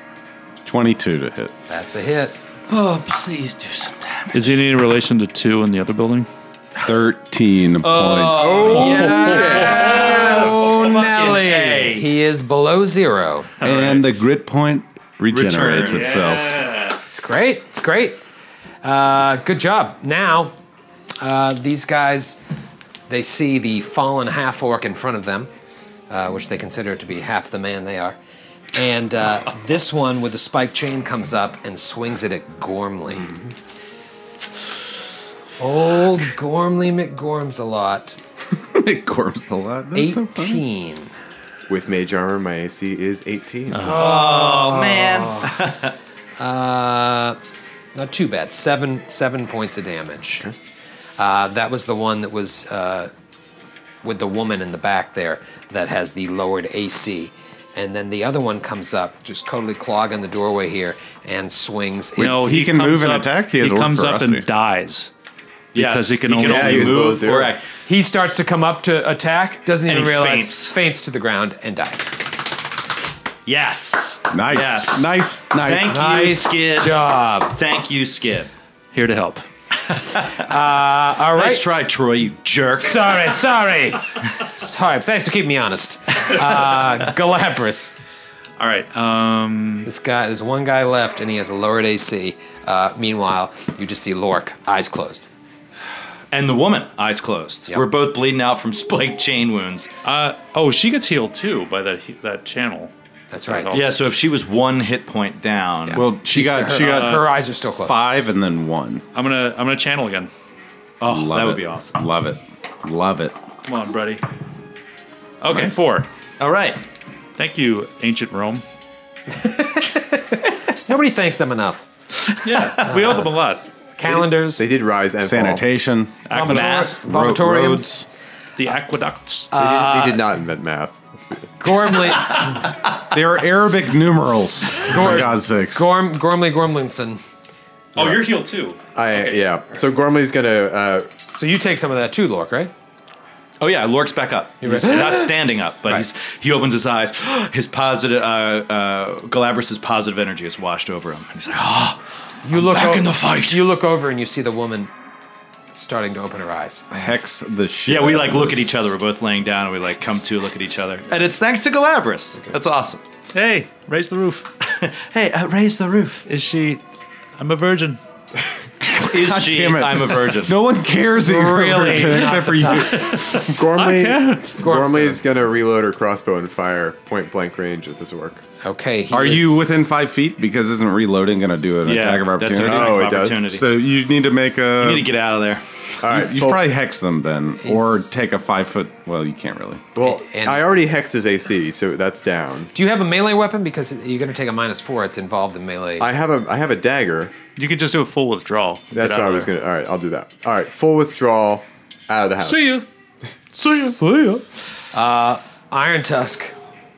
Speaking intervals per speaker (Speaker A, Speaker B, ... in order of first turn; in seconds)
Speaker A: 0.7-1.5, 6.8-9.1, 13.6-16.6, 38.7-40.6, 62.2-64.5, 74.3-76.0, 105.9-109.0, 111.0-113.4, 115.5-115.8, 125.2-126.3, 126.9-128.1, 133.0-135.9, 156.9-158.9, 168.9-173.5, 179.1-185.1, 186.0-189.8
Speaker B: 1.7-2.4, 9.1-13.5, 17.1-18.2, 18.8-20.6, 21.2-22.4, 23.1-25.5, 26.1-28.2, 28.7-33.3, 35.6-38.2, 39.9-41.1, 43.9-45.5, 46.4-47.4, 47.9-50.5, 51.2-53.1, 54.0-62.6, 67.9-72.3, 75.9-77.5, 80.3-81.6, 82.8-88.0, 89.8-95.2, 103.3-103.8, 105.9-108.0, 119.3-121.9, 122.8-123.3, 124.0-124.7, 126.3-127.9, 129.5-130.0, 131.6-132.7, 134.8-137.2, 141.3-142.7, 144.6-145.3, 152.4-154.9, 155.7-156.9, 171.2-173.1, 174.6-175.2, 178.6-179.9, 187.6-188.2, 190.0-190.7, 192.7-196.1, 204.9-206.5
Speaker C: 2.7-4.6, 7.8-12.1, 15.3-16.4, 43.8-46.0, 65.7-67.7, 69.9-70.8, 73.5-78.5, 79.9-80.3, 81.3-83.4, 96.3-99.9, 103.7-106.0, 111.0-112.0, 116.4-116.8, 122.5-122.9, 126.3-127.0, 143.6-153.6, 157.9-163.0, 164.6-166.2, 168.9-170.6, 181.8-183.7, 184.8-185.6
Speaker D: 4.3-6.3, 8.6-9.9, 13.6-14.0, 15.8-17.0, 43.7-44.2, 62.2-65.1, 65.7-67.2, 78.9-79.5, 88.6-89.9, 100.0-102.9, 103.5-104.0, 106.7-107.3, 109.2-110.3, 113.7-114.2, 115.4-116.1, 117.4-118.6, 122.4-123.7, 126.3-126.9, 128.6-129.5, 137.9-139.2, 163.3-164.5, 166.3-166.8, 167.4-168.0, 172.5-174.7, 197.6-199.5, 202.4-202.9, 203.6-204.4
Speaker E: 8.4-10.4, 41.7-44.0, 66.4-67.6, 124.0-125.7, 129.6-130.9, 138.0-138.3, 138.9-141.1, 173.5-178.4, 182.6-183.5, 186.0-186.6, 189.9-192.7, 196.0-197.3, 198.9-202.8